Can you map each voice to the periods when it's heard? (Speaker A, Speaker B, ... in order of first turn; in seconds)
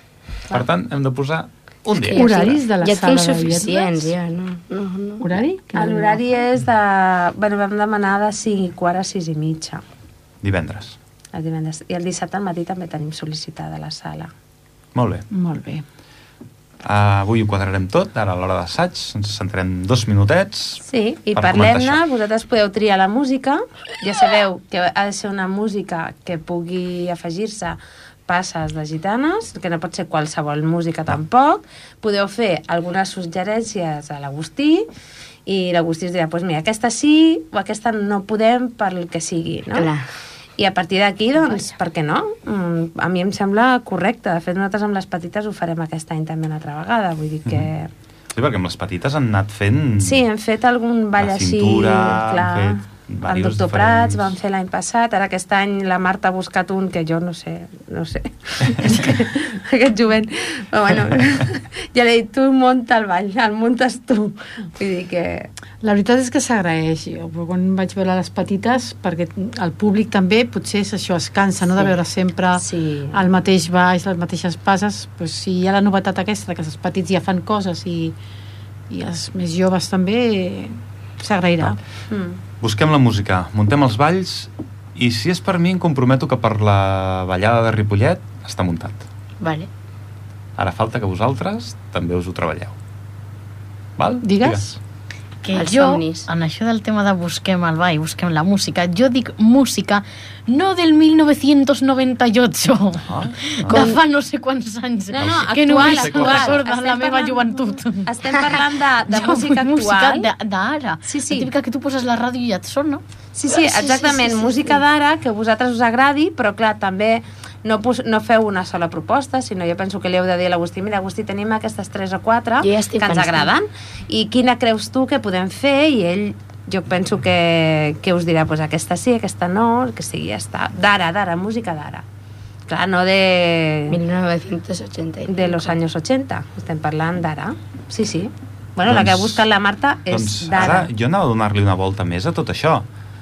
Speaker A: 0.5-2.6, 10.4-11.0, 14.9-15.3, 16.8-20.8, 21.3-22.0, 48.3-50.2, 51.2-54.3, 82.6-89.0, 90.6-92.8, 94.0-94.7, 103.0-104.0, 105.1-106.6, 138.8-139.4, 140.1-142.8
Speaker B: 1.9-5.4, 39.7-40.1, 89.4-89.7, 95.5-96.3, 103.7-104.0, 113.5-114.8, 122.6-123.5, 133.9-135.8
Speaker C: 2.1-4.1, 5.2-6.2, 15.3-15.8, 65.8-78.1, 78.9-81.8, 94.2-94.7
Speaker D: 5.7-9.8, 11.3-14.3, 20.8-34.9, 35.5-39.9, 40.6-47.9, 50.0-65.5, 72.6-73.2, 82.1-82.4, 105.1-110.3, 111.0-111.5, 113.3-132.0, 132.7-134.0, 135.3-140.9
Speaker E: 95.4-108.4, 109.1-113.0